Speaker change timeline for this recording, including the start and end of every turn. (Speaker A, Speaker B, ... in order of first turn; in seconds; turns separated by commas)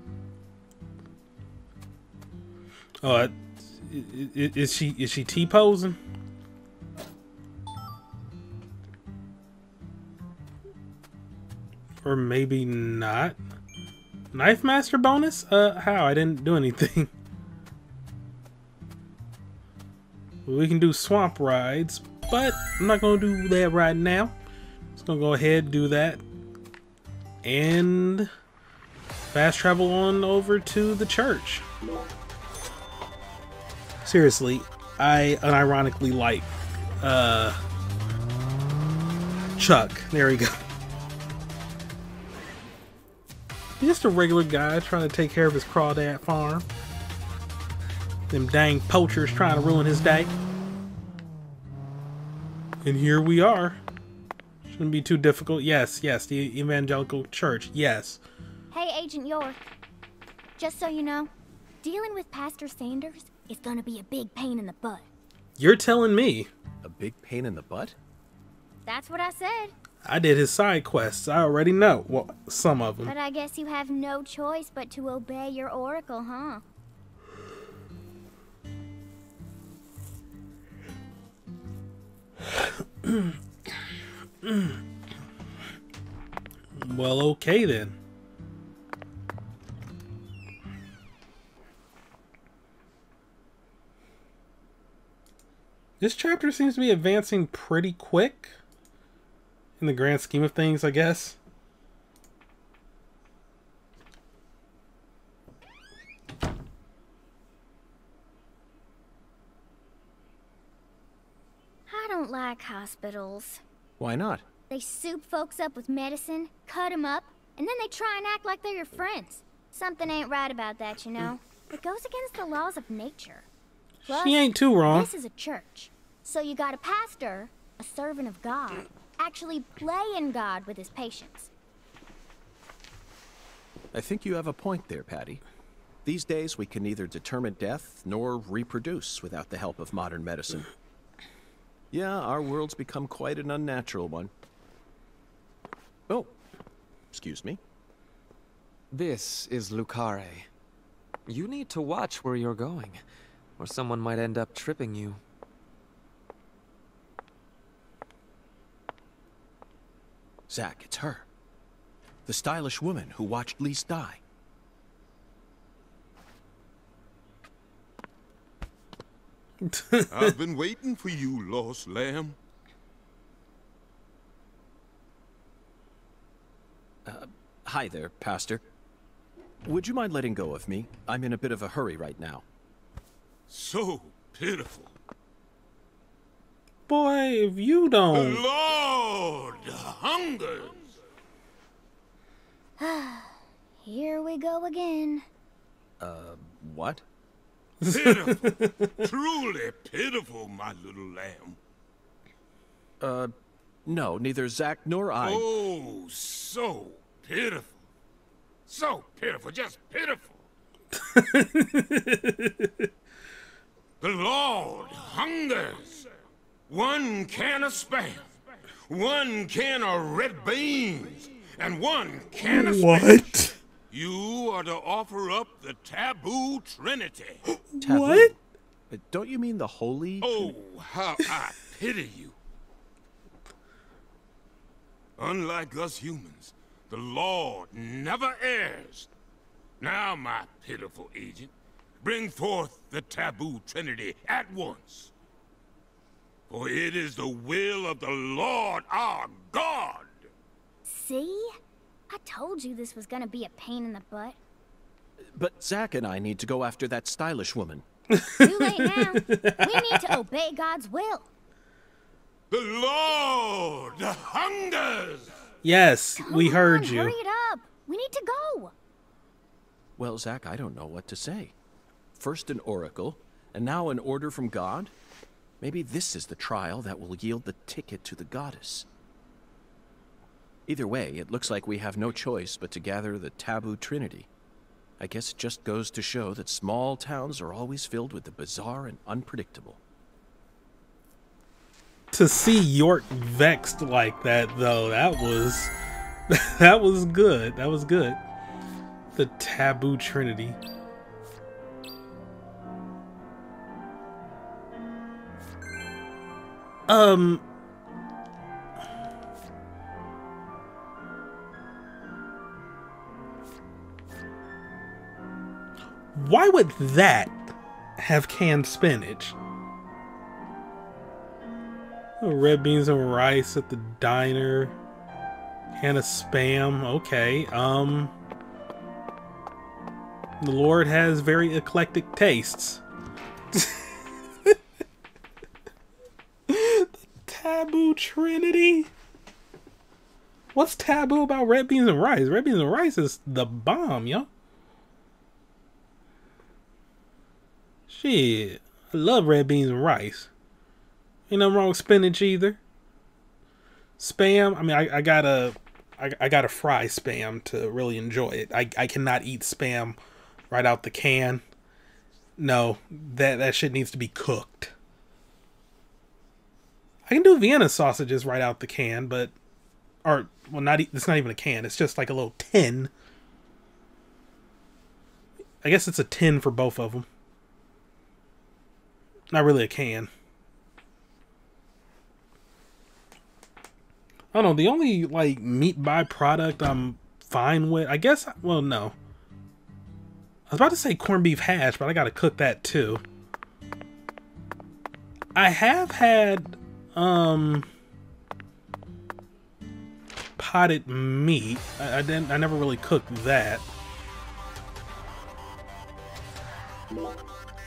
Speaker A: 3.0-6.0, Speaker A: 12.0-13.4, Speaker A: 14.3-17.1, Speaker A: 20.5-24.4, Speaker A: 25.0-26.2, Speaker A: 27.4-28.3, Speaker A: 29.3-31.7, Speaker A: 34.0-37.6, Speaker A: 39.6-40.5, Speaker A: 43.8-46.6, Speaker A: 48.3-50.3, Speaker A: 52.8-53.8, Speaker A: 54.7-58.2, Speaker B: 58.7-59.6, Speaker B: 60.6-61.3, Speaker B: 61.8-65.1, Speaker A: 65.6-66.5, Speaker C: 66.8-68.0, Speaker B: 68.9-69.7, Speaker A: 70.0-73.1, Speaker B: 73.0-76.6, Speaker A: 83.0-83.3, Speaker A: 84.4-84.8, Speaker A: 86.8-88.0, Speaker A: 96.0-98.5, Speaker A: 99.8-101.4, Speaker B: 111.9-113.6, Speaker C: 114.0-114.5, Speaker B: 114.7-123.5, Speaker A: 124.1-125.1, Speaker B: 124.1-131.5, Speaker C: 133.9-135.4, Speaker C: 136.1-140.7, Speaker C: 141.9-144.3, Speaker C: 147.1-147.6, Speaker D: 148.9-150.5, Speaker D: 151.3-153.0, Speaker D: 153.6-155.2, Speaker C: 160.5-161.3, Speaker C: 162.3-164.2, Speaker A: 169.7-170.3, Speaker E: 170.1-172.4, Speaker C: 177.1-178.7, Speaker C: 179.7-182.4, Speaker E: 183.5-184.9, Speaker A: 186.9-188.5, Speaker E: 188.1-191.0, Speaker B: 192.8-195.2, Speaker C: 196.0-197.0, Speaker A: 197.8-199.1, Speaker E: 197.9-201.6, Speaker C: 203.0-203.3, Speaker C: 203.8-205.6, Speaker E: 205.2-207.8, Speaker E: 208.7-210.5, Speaker A: 210.9-212.9, Speaker E: 214.0-216.1, Speaker E: 216.7-218.3, Speaker E: 218.9-227.4, Speaker A: 222.4-223.6, Speaker A: 227.7-228.3, Speaker C: 227.8-228.4, Speaker C: 228.9-230.5, Speaker E: 230.2-232.4, Speaker E: 235.2-239.1, Speaker E: 239.8-245.1, Speaker E: 246.5-250.3, Speaker B: 250.9-251.5, Speaker B: 252.1-254.4, Speaker C: 255.3-257.8, Speaker A: 258.1-260.1, Speaker B: 258.4-261.3, Speaker E: 262.5-265.4, Speaker A: 265.6-267.1, Speaker B: 266.2-268.7, Speaker C: 270.0-271.6, Speaker C: 272.2-274.9, Speaker C: 275.6-278.9, Speaker C: 280.7-284.3, Speaker C: 285.0-289.8, Speaker A: 292.1-295.7, Speaker A: 296.3-298.2, Speaker A: 299.1-300.6, Speaker A: 306.9-307.4, Speaker A: 316.1-319.4, Speaker A: 322.2-324.8, Speaker A: 325.8-328.1, Speaker A: 330.4-332.8, Speaker A: 333.5-333.9, Speaker A: 336.5-338.9, Speaker A: 340.5-344.3, Speaker A: 347.9-350.3, Speaker A: 351.3-352.6, Speaker A: 354.0-360.0, Speaker A: 360.5-361.4, Speaker A: 362.4-364.7, Speaker A: 367.1-369.3, Speaker A: 370.1-372.9, Speaker A: 375.6-377.1, Speaker A: 379.3-380.1, Speaker A: 384.3-389.0, Speaker A: 390.5-393.0, Speaker A: 395.4-397.7, Speaker A: 400.4-403.7